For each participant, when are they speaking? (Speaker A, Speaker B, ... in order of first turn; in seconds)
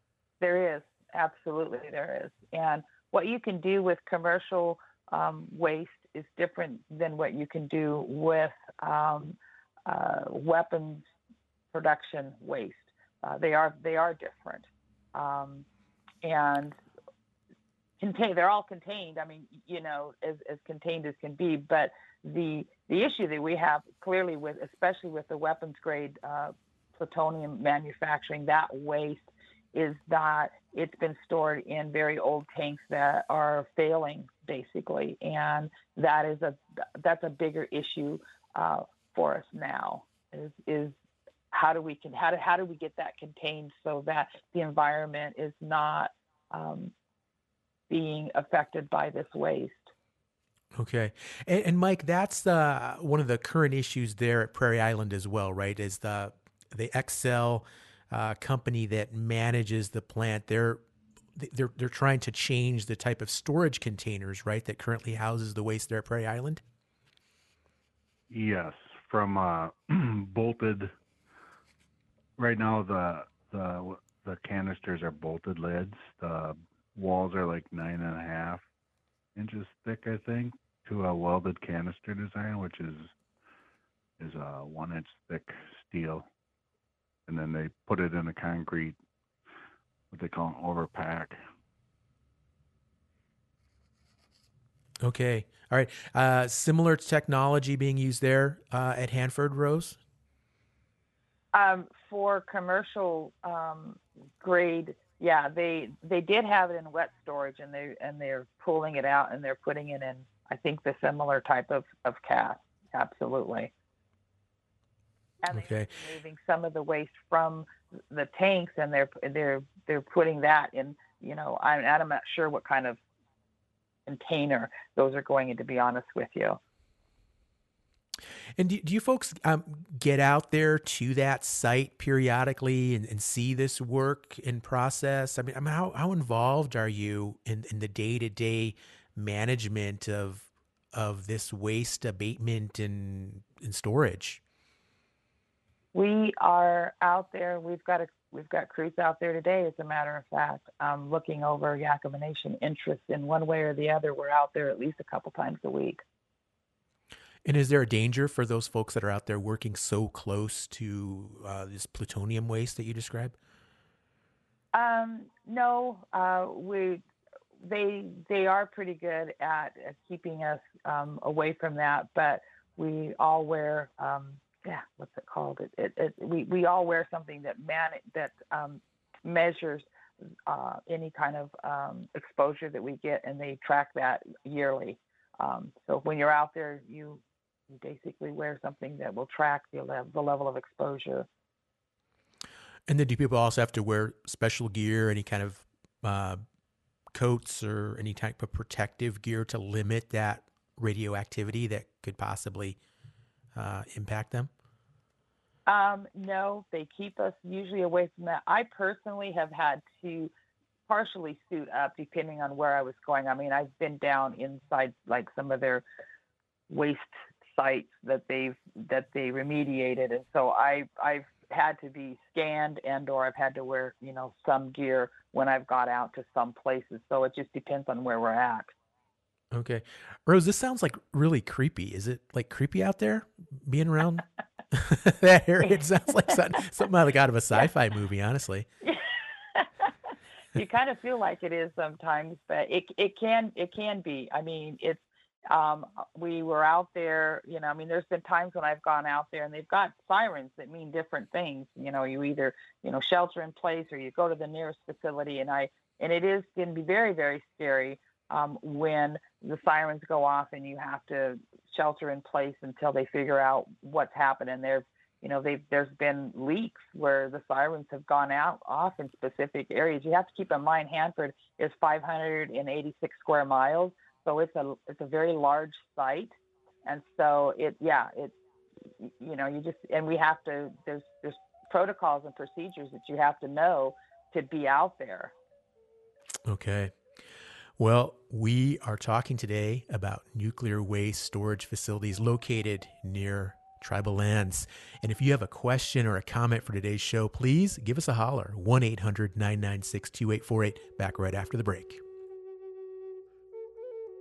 Speaker A: 0.4-11.1, 11.7-15.7, 16.2-16.8, 18.0-41.0, 41.5-46.9, 47.9-49.9, 101.5-113.7, 115.4-123.0, 124.1-126.6, 145.9-156.0, 164.7-167.0, 167.6-179.9, 180.5-191.3, 205.7-210.3, 210.9-215.8, 216.7-228.7, 235.6-236.6, 238.8-239.9, 240.5-278.4, 279.0-285.3
Speaker B: 50.8-60.8, 61.4-66.6, 95.0-100.0, 115.5-115.9, 128.6-144.4, 157.4-163.4, 192.9-196.4, 197.1-202.8, 203.5-204.5, 229.5-238.7, 286.5-286.9, 287.8-302.0
Speaker C: 68.3-70.9, 72.4-78.6, 79.4-83.1, 84.2-86.3, 87.3-89.0, 90.1-91.4